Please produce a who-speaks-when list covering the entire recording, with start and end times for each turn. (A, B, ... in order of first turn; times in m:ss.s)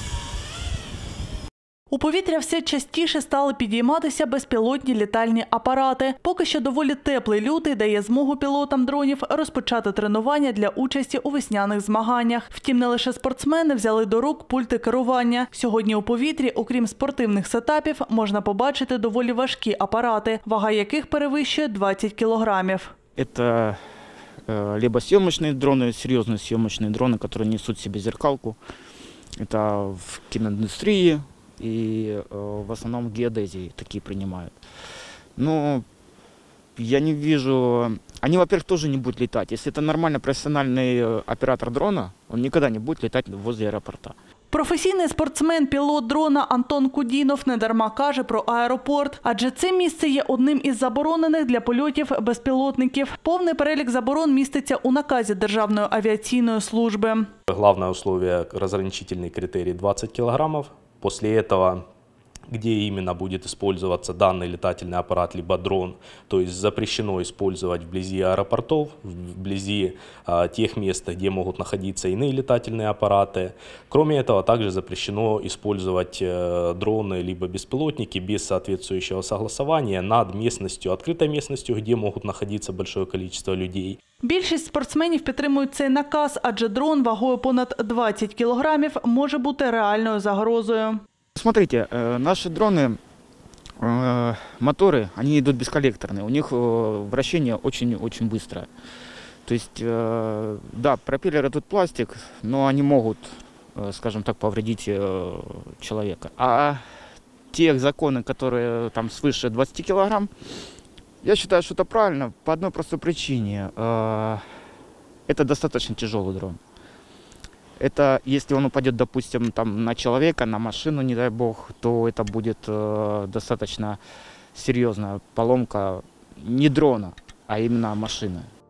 0:01.9-0:22.9 A
0:23.2-0:23.8 B
0:24.5-0:28.6 B
0:29.4-0:34.5 B
0:35.4-0:35.8 B
0:36.8-0:44.1 B
0:44.5-0:57.3 A
0:57.5-1:01.8 C
1:02.5-1:24.0 C
1:24.2-1:31.0 A
1:31.4-1:33.0 B
1:33.8-1:38.7 B
1:39.5-1:46.8 B
1:47.5-1:50.3 B
1:51.2-1:54.4 B
1:55.3-1:56.6 B
1:57.8-2:04.0 B
2:04.5-2:08.5 B